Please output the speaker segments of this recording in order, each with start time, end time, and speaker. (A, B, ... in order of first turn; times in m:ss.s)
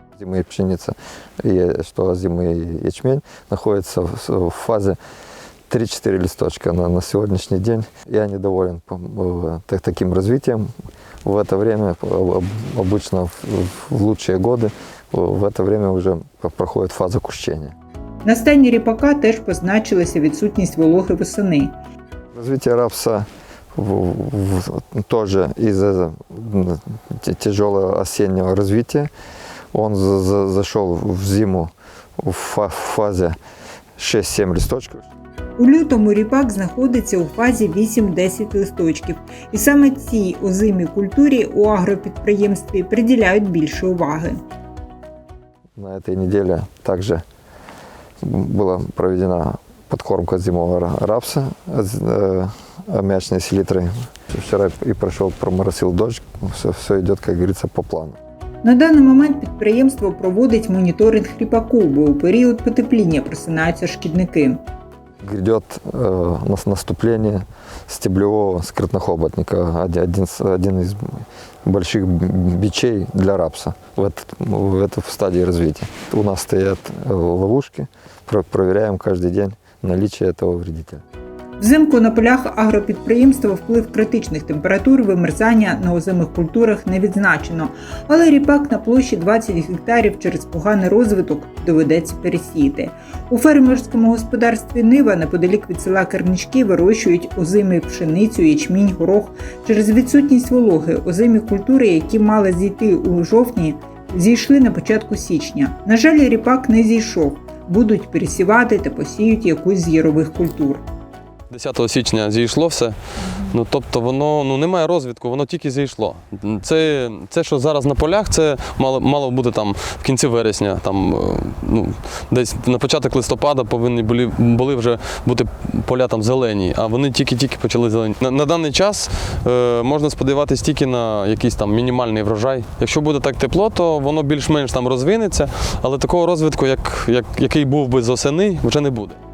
0:00.2-0:05.0 A
0:05.7-0:10.7 A
0:11.2-0:17.8 A
0:18.2-0:21.8 B
0:22.4-0:29.1 A
0:29.7-0:33.4 A
0:34.0-0:35.1 A
0:35.6-0:44.4 B
0:45.8-0:47.2 A
0:48.2-0:58.2 A
0:58.6-1:04.6 B
1:05.2-1:21.0 A
1:21.6-1:50.8 B
1:51.5-2:19.2 C
1:53.3-1:53.5 B